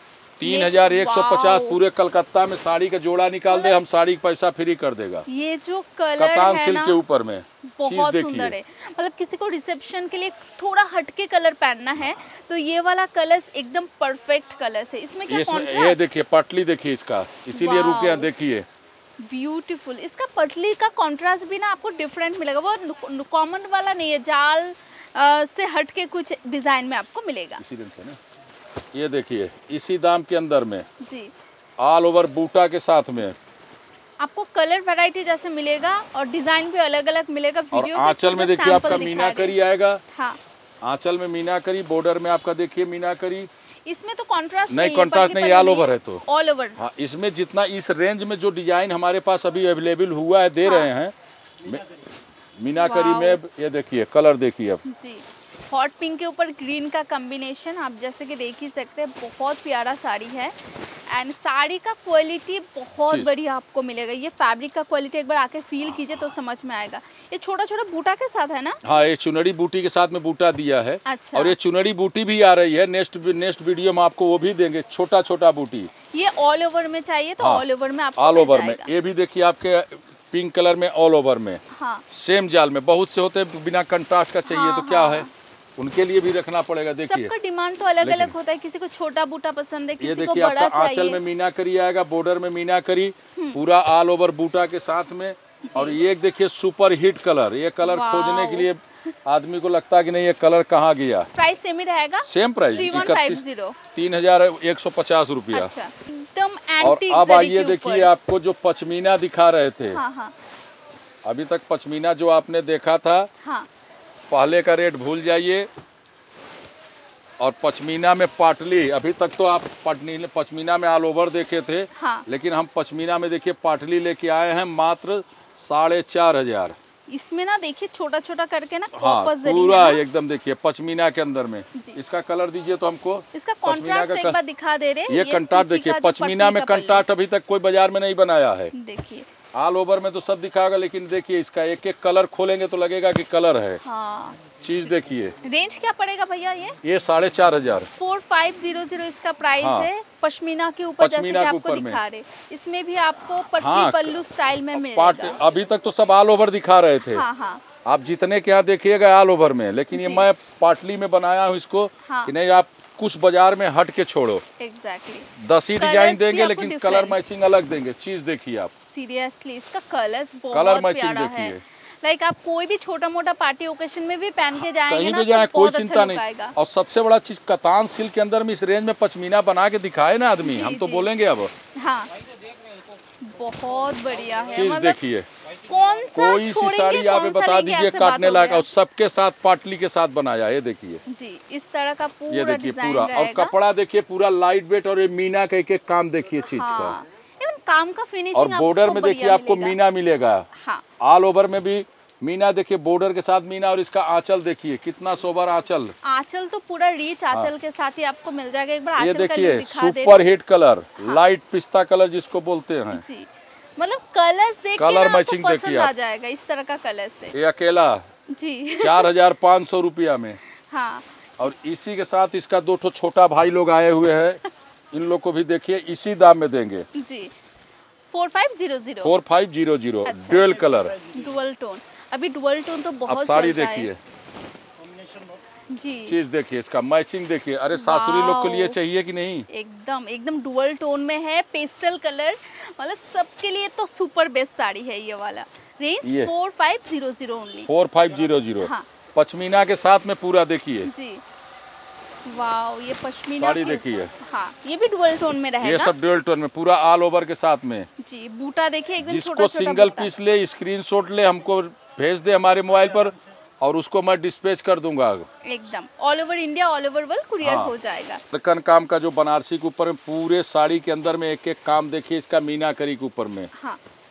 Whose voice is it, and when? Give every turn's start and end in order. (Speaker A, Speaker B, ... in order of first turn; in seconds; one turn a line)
Speaker A: 0.4-5.3
Speaker B: 0.4-1.8
Speaker B: 3.5-3.8
Speaker B: 5.3-7.0
Speaker A: 6.2-8.6
Speaker B: 7.8-16.1
Speaker A: 15.3-18.7
Speaker B: 17.5-18.3
Speaker B: 19.2-27.6
Speaker A: 27.6-28.2
Speaker A: 28.9-30.9
Speaker B: 31.0-31.3
Speaker A: 31.8-33.4
Speaker B: 34.2-39.6
Speaker A: 37.7-40.0
Speaker B: 40.1-40.4
Speaker A: 40.8-43.5
Speaker B: 43.9-46.8
Speaker A: 44.7-46.2
Speaker A: 46.8-51.1
Speaker B: 50.6-50.9
Speaker A: 52.6-54.8
Speaker B: 52.8-53.4
Speaker B: 54.9-68.8
Speaker A: 68.8-75.9
Speaker B: 71.1-71.6
Speaker B: 76.1-78.9
Speaker A: 77.4-77.7
Speaker A: 78.2-81.6
Speaker B: 81.7-82.0
Speaker A: 82.1-87.3
Speaker B: 84.5-85.3
Speaker B: 87.0-91.2
Speaker A: 88.0-88.3
Speaker A: 90.0-101.3
Speaker B: 95.7-96.0
Speaker B: 97.8-98.7
Speaker B: 101.3-103.8
Speaker A: 102.2-105.7
Speaker B: 105.5-108.1
Speaker A: 106.8-110.0
Speaker B: 109.9-110.3
Speaker A: 111.2-113.3
Speaker B: 113.4-113.7
Speaker A: 114.3-115.7
Speaker A: 117.4-126.8
Speaker B: 122.0-122.3
Speaker B: 127.1-130.0
Speaker A: 128.9-134.4
Speaker B: 133.3-137.1
Speaker A: 135.1-138.7
Speaker B: 138.7-139.3
Speaker A: 139.5-143.8
Speaker B: 143.8-144.4
Speaker A: 144.6-145.4
Speaker B: 145.4-146.8
Speaker A: 146.8-147.9
Speaker B: 148.0-155.4
Speaker A: 149.6-149.9
Speaker A: 151.0-152.0
Speaker A: 153.5-154.2
Speaker A: 154.7-157.2
Speaker B: 157.1-157.7
Speaker A: 157.8-164.4
Speaker B: 159.9-160.3
Speaker B: 162.1-162.3
Speaker B: 164.6-167.2
Speaker A: 165.4-168.7
Speaker B: 168.9-176.6
Speaker A: 170.5-171.6
Speaker A: 174.6-181.5
Speaker B: 180.4-181.1
Speaker B: 181.8-182.1
Speaker B: 183.2-185.0
Speaker A: 184.5-185.3
Speaker B: 185.7-188.7
Speaker A: 186.1-191.0
Speaker B: 191.1-193.5
Speaker A: 192.3-197.0
Speaker B: 196.5-199.8
Speaker A: 198.3-200.5
Speaker B: 200.6-200.8
Speaker A: 201.0-205.9
Speaker B: 206.0-210.3
Speaker A: 209.0-213.0
Speaker B: 212.9-217.3
Speaker A: 214.8-215.9
Speaker A: 217.3-218.1
Speaker B: 218.3-219.1
Speaker A: 218.8-220.4
Speaker B: 220.7-221.1
Speaker A: 221.4-224.4
Speaker A: 224.9-226.9
Speaker B: 226.9-227.3
Speaker B: 228.1-229.1
Speaker A: 229.0-231.0
Speaker B: 230.1-233.9
Speaker A: 233.1-234.0
Speaker B: 235.7-236.2
Speaker A: 236.1-239.5
Speaker B: 237.7-238.8
Speaker B: 239.5-247.7
Speaker A: 246.0-246.3
Speaker A: 247.7-250.9
Speaker B: 248.6-248.9
Speaker B: 250.9-251.2
Speaker B: 252.2-255.9
Speaker A: 253.4-254.2
Speaker A: 255.6-257.9
Speaker B: 258.0-260.1
Speaker A: 259.0-265.3
Speaker B: 265.4-268.2
Speaker A: 267.4-267.7
Speaker A: 268.3-273.5
Speaker B: 273.6-273.8